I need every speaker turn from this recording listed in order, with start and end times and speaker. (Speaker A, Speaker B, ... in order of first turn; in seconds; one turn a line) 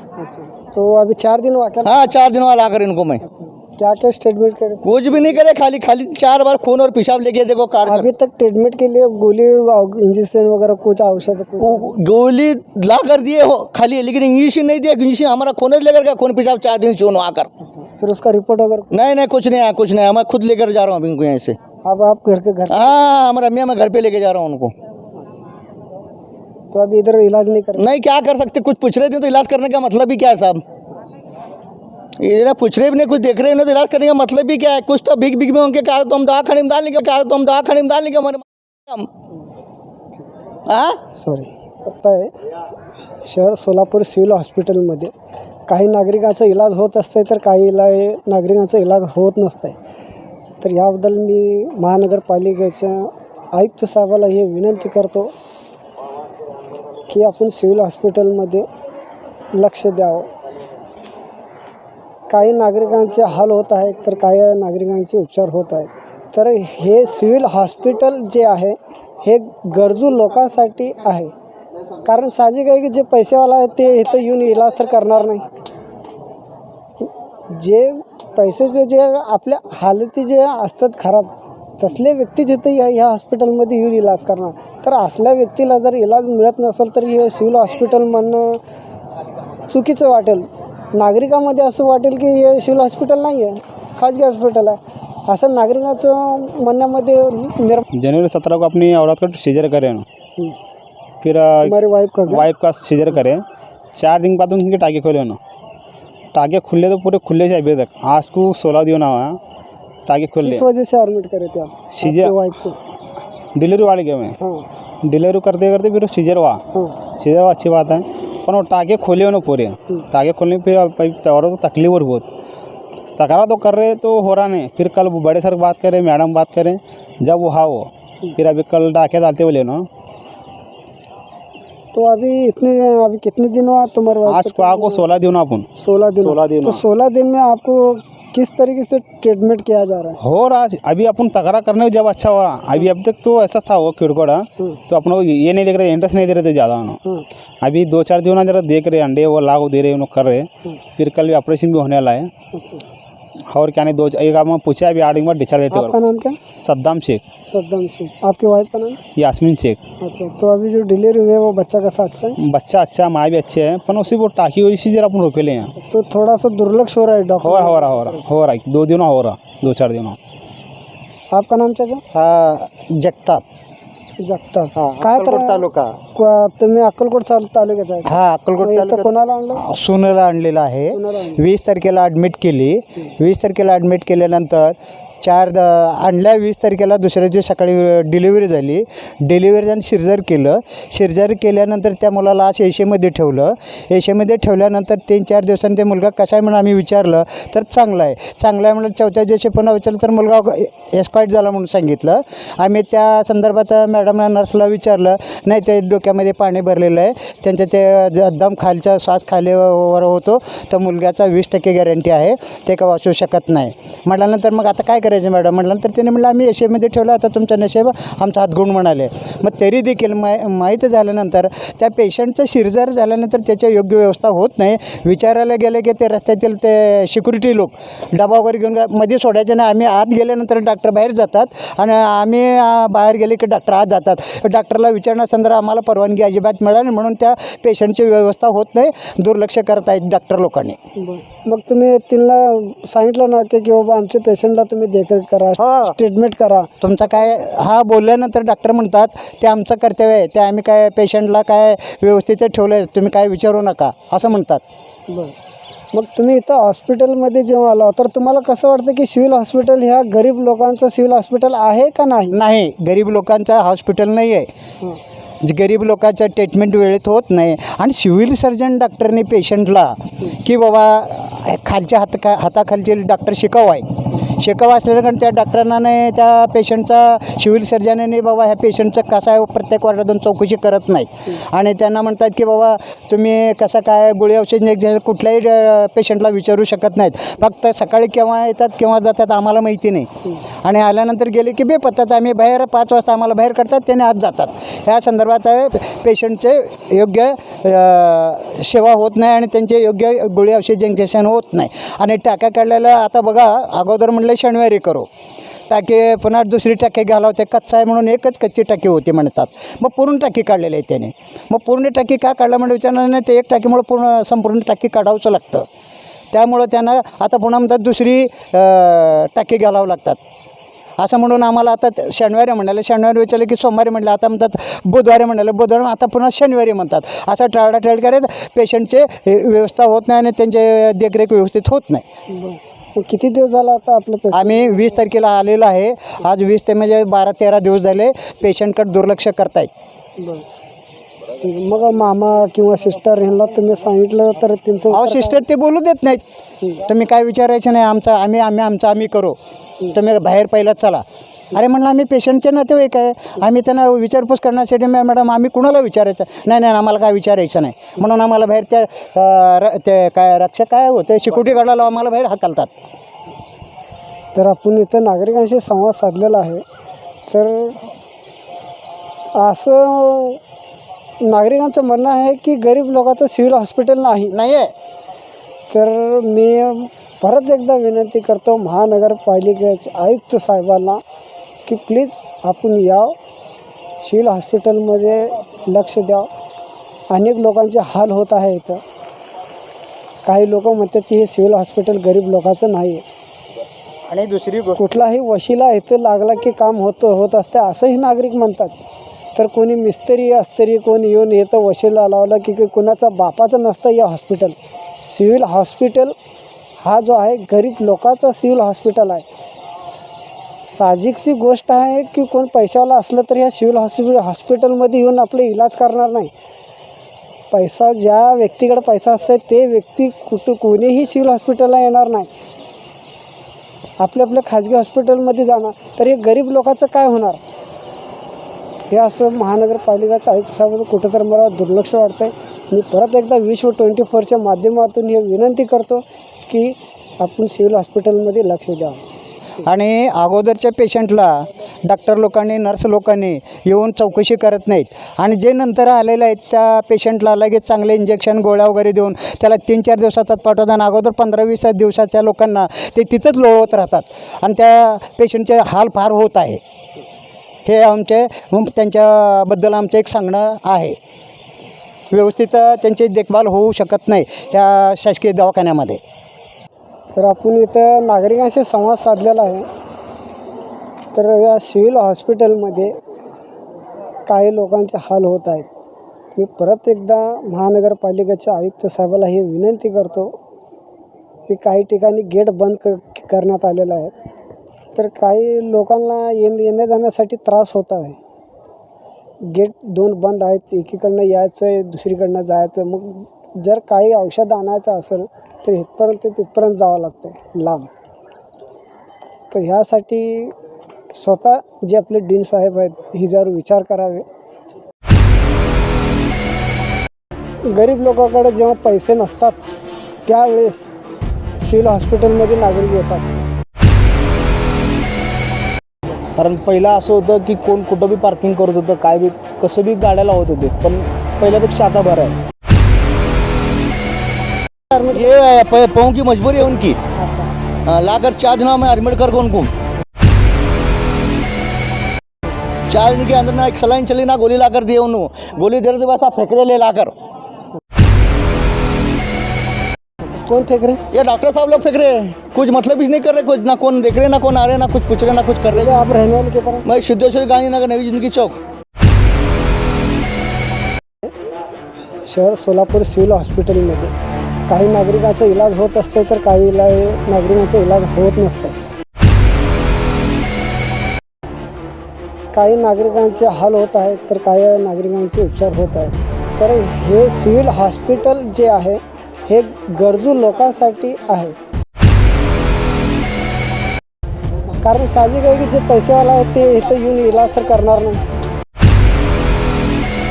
Speaker A: 0.2-2.1
Speaker B: 1.8-3.2
Speaker A: 3.3-5.3
Speaker B: 4.8-8.1
Speaker A: 7.9-11.9
Speaker B: 11.6-17.5
Speaker A: 17.7-18.9
Speaker B: 18.9-21.6
Speaker A: 21.8-23.0
Speaker B: 22.7-24.7
Speaker A: 26.7-27.9
Speaker B: 27.8-30.6
Speaker B: 32.2-39.1
Speaker B: 40.7-41.0
Speaker A: 41.1-42.3
Speaker A: 43.2-45.1
Speaker A: 45.7-49.8
Speaker A: 50.6-55.3
Speaker A: 57.1-58.7
Speaker A: 59.5-60.3
Speaker A: 62.3-71.3
Speaker A: 72.0-75.4
Speaker A: 77.5-88.6
Speaker A: 89.7-97.8
Speaker C: 98.0-100.0
Speaker C: 101.2-101.8
Speaker A: 101.6-102.5
Speaker C: 102.3-103.4
Speaker C: 104.0-105.4
Speaker C: 106.3-109.4
Speaker C: 110.1-110.7
Speaker A: 110.4-112.8
Speaker C: 111.9-112.3
Speaker C: 113.5-114.3
Speaker A: 114.4-114.7
Speaker C: 115.0-116.6
Speaker C: 117.2-122.3
Speaker C: 123.2-129.9
Speaker A: 131.9-135.2
Speaker C: 134.3-135.7
Speaker A: 135.8-140.2
Speaker C: 136.2-136.8
Speaker C: 140.2-147.0
Speaker C: 147.6-152.3
Speaker A: 152.5-152.8
Speaker C: 153.5-155.9
Speaker A: 155.7-156.4
Speaker C: 156.6-157.2
Speaker A: 157.5-159.0
Speaker C: 159.2-159.8
Speaker A: 160.0-162.4
Speaker C: 162.4-165.7
Speaker A: 165.8-168.2
Speaker C: 167.4-170.2
Speaker A: 171.3-172.0
Speaker D: 172.1-173.4
Speaker A: 174.2-179.6
Speaker D: 174.8-176.0
Speaker D: 178.1-240.8
Speaker A: 180.9-181.4
Speaker A: 241.0-246.7
Speaker D: 245.6-246.0
Speaker D: 246.8-254.6
Speaker A: 255.1-255.3
Speaker A: 255.9-262.4
Speaker D: 262.3-264.5
Speaker D: 265.4-290.1
Speaker D: 290.6-305.1
Speaker D: 305.7-315.7
Speaker D: 316.3-320.2
Speaker D: 321.0-332.0
Speaker A: 332.3-335.0
Speaker D: 334.3-339.7
Speaker A: 340.2-340.4
Speaker A: 341.4-345.4
Speaker D: 344.9-346.2
Speaker D: 346.8-349.4
Speaker D: 349.9-362.7
Speaker A: 364.3-366.6
Speaker A: 367.3-367.8
Speaker A: 369.4-370.4
Speaker A: 371.2-374.3
Speaker D: 374.3-374.7
Speaker A: 375.7-381.0
Speaker A: 381.7-383.1
Speaker A: 384.0-386.3
Speaker A: 387.1-388.8
Speaker A: 390.2-393.0
Speaker D: 394.1-395.0
Speaker A: 394.8-398.8
Speaker A: 399.4-406.1
Speaker A: 406.8-409.2
Speaker A: 410.7-416.3
Speaker A: 417.5-422.3
Speaker A: 424.0-427.4
Speaker A: 428.9-439.0
Speaker D: 439.6-456.6
Speaker D: 457.7-461.0
Speaker D: 462.1-466.0
Speaker A: 467.2-469.7
Speaker A: 471.1-472.9
Speaker A: 474.3-475.7
Speaker A: 476.4-480.4
Speaker A: 481.5-484.1
Speaker A: 484.9-488.2
Speaker A: 489.4-497.9
Speaker A: 499.5-500.6
Speaker A: 501.1-504.3
Speaker A: 507.7-509.6
Speaker A: 510.3-510.9
Speaker A: 511.6-513.3
Speaker E: 516.4-522.4
Speaker A: 524.9-525.2
Speaker B: 525.1-527.0
Speaker A: 527.2-527.5
Speaker B: 527.9-529.7
Speaker B: 532.9-537.1
Speaker A: 540.2-541.0
Speaker B: 541.1-546.0
Speaker A: 545.7-546.9
Speaker B: 546.9-548.6
Speaker A: 552.3-554.1
Speaker A: 554.7-558.8
Speaker A: 562.5-571.6
Speaker A: 574.8-578.2